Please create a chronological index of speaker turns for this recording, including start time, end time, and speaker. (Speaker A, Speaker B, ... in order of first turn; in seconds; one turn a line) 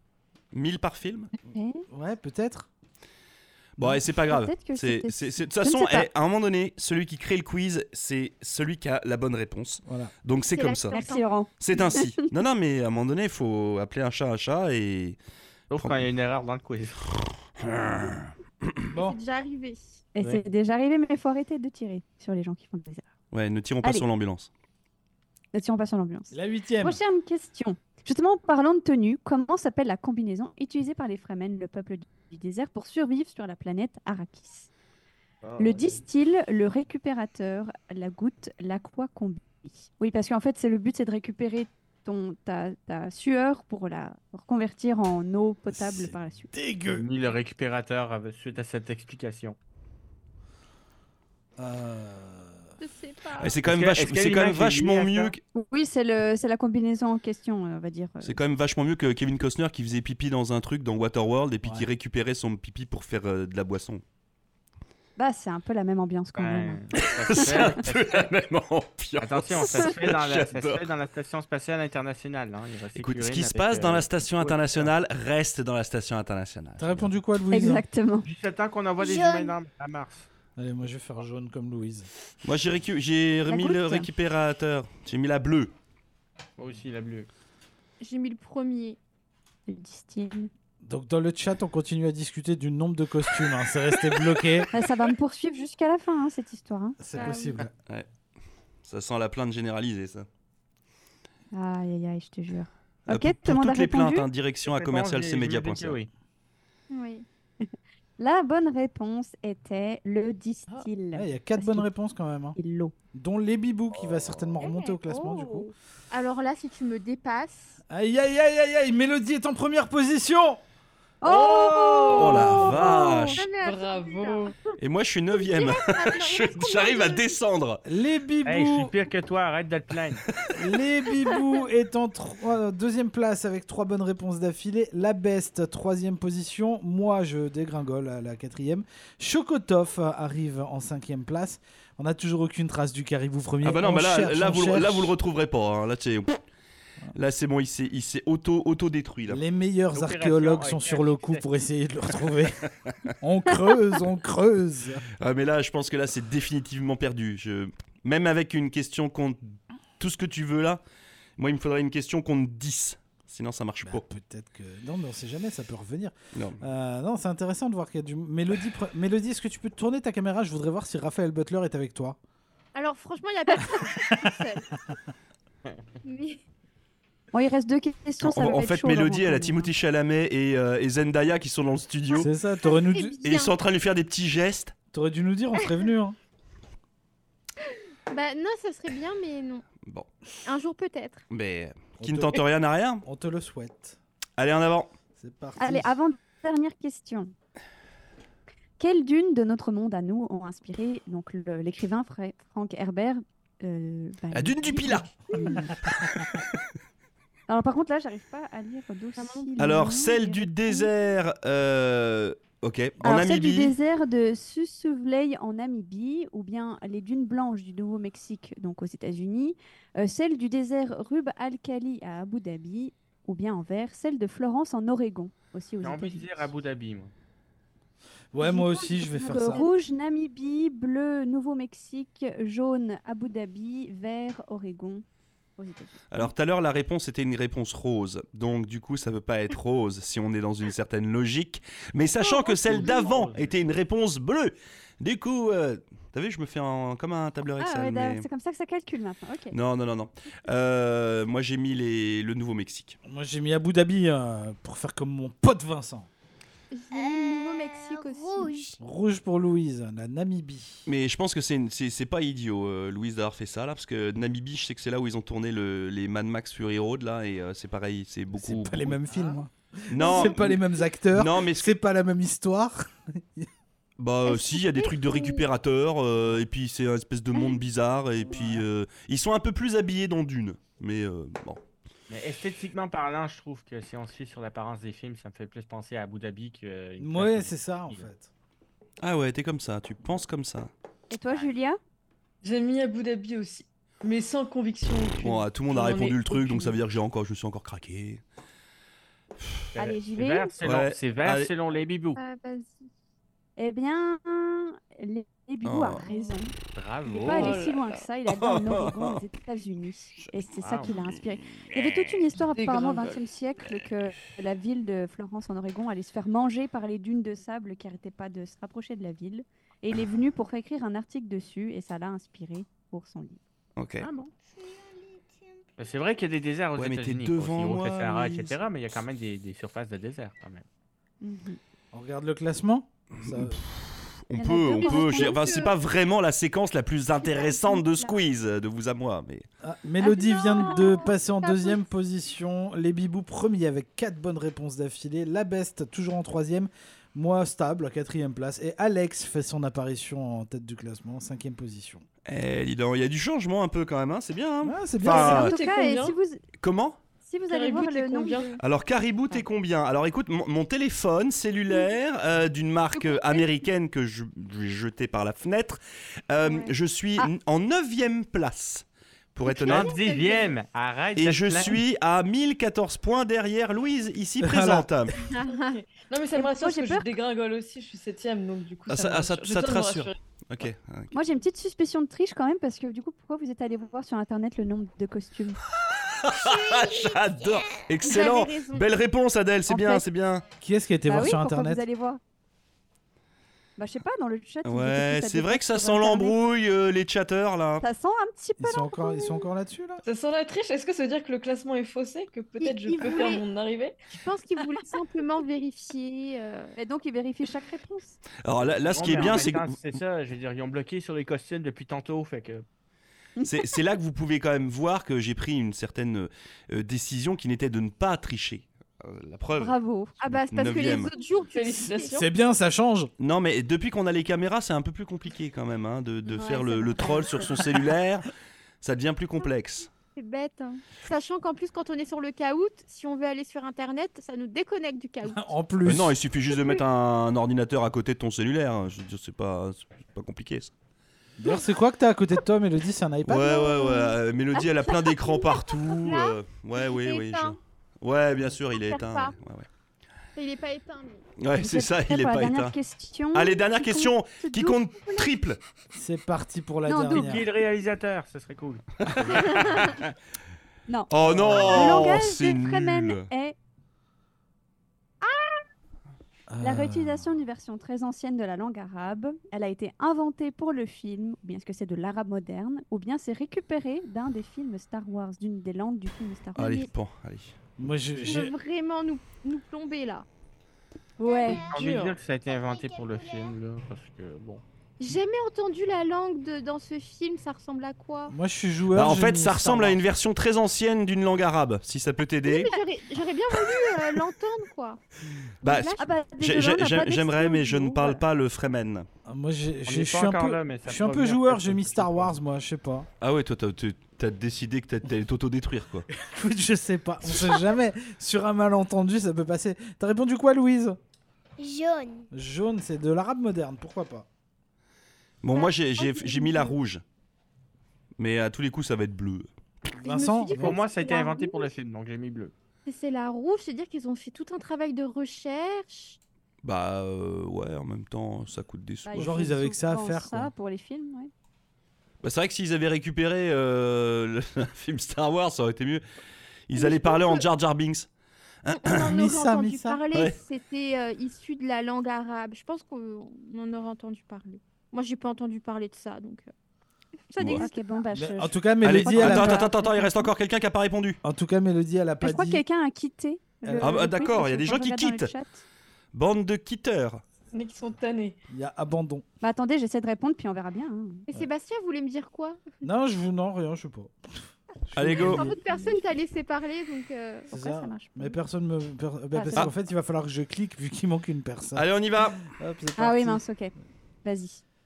Speaker A: 0.5-1.3
Speaker B: 1.4-1.9
Speaker C: 1.9-2.7
Speaker A: 3.8-11.0
Speaker B: 4.1-6.1
Speaker C: 9.8-10.1
Speaker D: 10.5-11.2
Speaker B: 10.9-12.2
Speaker A: 11.6-15.2
Speaker E: 15.7-17.0
Speaker A: 15.8-16.1
Speaker A: 17.6-18.7
Speaker D: 18.9-20.0
Speaker C: 18.9-19.2
Speaker B: 20.1-23.1
Speaker A: 23.3-24.5
Speaker B: 25.5-34.7
Speaker C: 26.3-27.0
Speaker E: 35.4-36.0
Speaker B: 35.6-46.5
Speaker C: 45.7-47.1
Speaker E: 46.9-49.6
Speaker C: 51.6-52.7
Speaker D: 52.8-53.6
Speaker A: 53.4-55.4
Speaker E: 53.6-55.3
Speaker B: 55.5-58.4
Speaker A: 58.2-64.0
Speaker B: 65.2-66.8
Speaker E: 66.4-68.3
Speaker A: 67.0-70.9
Speaker E: 69.2-74.9
Speaker A: 73.0-77.1
Speaker C: 76.8-77.8
Speaker B: 77.5-78.3
Speaker E: 78.2-80.3
Speaker F: 79.0-79.6
Speaker C: 80.6-82.1
Speaker A: 82.4-85.7
Speaker B: 83.5-84.1
Speaker E: 86.6-87.3
Speaker D: 88.0-89.0
Speaker B: 89.7-90.5
Speaker C: 90.8-94.7
Speaker B: 94.7-97.0
Speaker C: 97.0-97.7
Speaker D: 97.1-97.6
Speaker A: 98.8-100.3
Speaker B: 101.5-104.3
Speaker A: 103.1-106.0
Speaker E: 104.6-106.1
Speaker D: 106.9-107.2
Speaker B: 107.6-111.9
Speaker C: 111.1-112.6
Speaker B: 112.6-112.9
Speaker C: 113.1-115.7
Speaker D: 114.6-117.8
Speaker C: 117.9-120.6
Speaker B: 121.2-123.4
Speaker G: 121.3-122.8
Speaker D: 122.1-124.5
Speaker A: 122.1-123.4
Speaker G: 123.5-124.5
Speaker A: 124.8-127.8
Speaker D: 125.3-127.4
Speaker C: 127.9-128.9
Speaker E: 128.4-130.2
Speaker C: 130.5-145.1
Speaker A: 143.6-146.4
Speaker A: 147.1-149.4
Speaker C: 149.3-152.6
Speaker E: 149.9-151.4
Speaker C: 153.2-155.0
Speaker A: 155.2-160.8
Speaker A: 161.4-164.0
Speaker C: 163.8-172.2
Speaker A: 166.3-166.6
Speaker D: 172.7-174.7
Speaker C: 173.6-174.4
Speaker D: 176.0-176.4
Speaker B: 177.3-179.7
Speaker A: 178.2-182.3
Speaker D: 182.1-183.5
Speaker C: 182.1-183.2
Speaker A: 183.2-184.7
Speaker C: 184.9-186.2
Speaker D: 187.7-189.7
Speaker A: 189.8-190.1
Speaker D: 190.4-191.2
Speaker A: 191.3-193.0
Speaker C: 192.0-192.4
Speaker C: 193.0-194.0
Speaker A: 194.4-194.9
Speaker C: 195.2-195.9
Speaker B: 195.6-197.3
Speaker B: 198.8-205.8
Speaker A: 204.3-205.2
Speaker B: 207.5-210.9
Speaker D: 209.2-209.5
Speaker A: 209.6-213.7
Speaker B: 213.0-226.5
Speaker E: 225.8-227.1
Speaker C: 228.3-229.6
Speaker B: 228.4-235.1
Speaker D: 229.4-229.7
Speaker B: 235.6-236.3
Speaker A: 236.1-248.2
Speaker D: 242.4-242.9
Speaker E: 242.6-243.7
Speaker B: 247.6-249.6
Speaker A: 249.5-253.0
Speaker C: 253.1-256.1
Speaker D: 256.7-258.6
Speaker F: 256.9-258.8
Speaker C: 258.8-260.9
Speaker A: 260.9-269.0
Speaker C: 268.3-273.5
Speaker A: 269.9-270.6
Speaker A: 271.1-271.7
Speaker A: 274.0-281.6
Speaker D: 274.2-275.5
Speaker E: 282.1-288.1
Speaker C: 287.0-288.3
Speaker A: 289.0-290.7
Speaker B: 291.1-291.8
Speaker G: 292.4-295.5
Speaker A: 295.2-298.2
Speaker B: 295.7-296.8
Speaker A: 299.4-299.7
Speaker E: 299.7-302.2
Speaker B: 299.8-300.6
Speaker A: 300.6-301.5
Speaker D: 302.1-302.9
Speaker B: 303.6-306.5
Speaker A: 305.6-306.0
Speaker E: 306.8-307.6
Speaker B: 307.1-323.4
Speaker G: 307.2-308.1
Speaker A: 308.3-309.2
Speaker E: 310.6-310.9
Speaker G: 312.5-313.2
Speaker A: 323.8-324.1
Speaker E: 324.0-324.3
Speaker F: 324.6-325.3
Speaker E: 325.8-330.6
Speaker A: 326.8-328.6
Speaker B: 331.2-331.6
Speaker C: 331.9-333.6
Speaker A: 333.2-339.4
Speaker B: 334.4-335.4
Speaker D: 334.8-335.7
Speaker D: 337.2-338.1
Speaker C: 339.6-352.1
Speaker D: 340.0-341.8
Speaker B: 340.6-340.9
Speaker A: 352.3-355.6
Speaker C: 354.6-355.4
Speaker B: 355.1-356.4
Speaker G: 355.1-356.2
Speaker A: 356.6-357.0
Speaker B: 357.2-358.6
Speaker G: 357.5-358.6
Speaker A: 358.6-369.9
Speaker D: 362.9-363.5
Speaker D: 366.4-366.7
Speaker D: 369.5-370.6
Speaker E: 369.6-371.8
Speaker A: 371.1-375.1
Speaker C: 374.4-374.9
Speaker D: 375.3-375.8
Speaker G: 375.5-380.2
Speaker B: 376.3-377.1
Speaker A: 378.9-381.1
Speaker B: 381.1-385.6
Speaker A: 385.8-390.4
Speaker F: 386.4-388.1
Speaker D: 388.0-388.9
Speaker B: 389.7-390.0
Speaker C: 390.6-391.8
Speaker B: 391.1-392.2
Speaker B: 393.8-396.4
Speaker A: 394.6-397.8
Speaker B: 397.8-399.5
Speaker C: 398.6-400.0
Speaker G: 400.0-403.9
Speaker D: 402.6-403.4
Speaker D: 404.1-406.7
Speaker B: 406.8-408.2
Speaker A: 408.4-409.8
Speaker E: 408.8-412.6
Speaker A: 413.4-419.8
Speaker B: 419.6-420.1
Speaker D: 420.2-422.2
Speaker A: 420.3-421.1
Speaker G: 421.5-422.3
Speaker C: 422.1-423.1
Speaker A: 423.2-428.3
Speaker B: 426.3-427.7
Speaker A: 428.8-429.9
Speaker D: 430.1-435.5
Speaker C: 435.2-436.2
Speaker A: 435.9-440.7
Speaker D: 436.5-436.8
Speaker C: 441.4-443.7
Speaker A: 443.2-449.7
Speaker D: 443.6-447.6
Speaker D: 448.7-449.3
Speaker D: 450.4-451.3
Speaker A: 451.4-452.8
Speaker B: 451.6-455.3
Speaker A: 453.3-455.6
Speaker C: 455.9-457.5
Speaker B: 456.9-457.4
Speaker E: 457.1-460.0
Speaker A: 459.4-460.0
Speaker B: 460.9-463.6
Speaker A: 461.1-463.2
Speaker C: 461.1-462.1
Speaker C: 466.5-467.2
Speaker B: 466.6-476.9
Speaker A: 476.6-477.6
Speaker C: 477.8-478.5
Speaker D: 478.2-480.2
Speaker B: 481.2-481.6
Speaker F: 481.2-481.9
Speaker G: 481.5-482.2
Speaker E: 481.7-484.6
Speaker F: 482.4-483.6
Speaker D: 485.0-488.4
Speaker C: 488.3-490.0
Speaker A: 488.9-492.7
Speaker D: 492.4-495.0
Speaker D: 495.6-496.1
Speaker A: 495.6-499.1
Speaker B: 496.0-498.2
Speaker C: 499.2-503.1
Speaker E: 499.9-502.3
Speaker A: 503.2-506.1
Speaker C: 506.1-511.0
Speaker F: 511.6-512.3
Speaker C: 512.3-514.3
Speaker A: 515.4-517.0
Speaker D: 515.5-516.8
Speaker A: 518.2-519.5
Speaker D: 519.9-521.7
Speaker C: 520.0-520.8
Speaker E: 520.5-522.5
Speaker D: 522.9-526.2
Speaker A: 526.6-529.4
Speaker B: 529.1-531.3
Speaker C: 529.1-530.5
Speaker A: 532.2-536.0
Speaker A: 536.7-538.1
Speaker D: 536.7-537.5
Speaker A: 538.6-539.1
Speaker D: 538.8-546.5
Speaker C: 538.9-540.0
Speaker D: 547.3-547.8
Speaker A: 547.4-547.6
Speaker B: 547.4-550.3
Speaker C: 548.1-549.7
Speaker A: 548.8-551.2
Speaker C: 551.2-552.6
Speaker B: 552.2-555.6
Speaker C: 553.6-554.1
Speaker A: 553.8-555.3
Speaker A: 556.1-557.2
Speaker G: 557.5-558.4
Speaker C: 558.5-559.2
Speaker B: 559.4-561.2
Speaker D: 561.3-562.6
Speaker C: 562.8-565.5
Speaker A: 565.0-565.4
Speaker D: 565.3-567.5
Speaker B: 565.6-566.0
Speaker B: 567.5-568.4
Speaker C: 567.5-573.4
Speaker B: 569.3-569.7
Speaker A: 571.7-572.4
Speaker B: 573.0-573.7
Speaker B: 574.2-574.6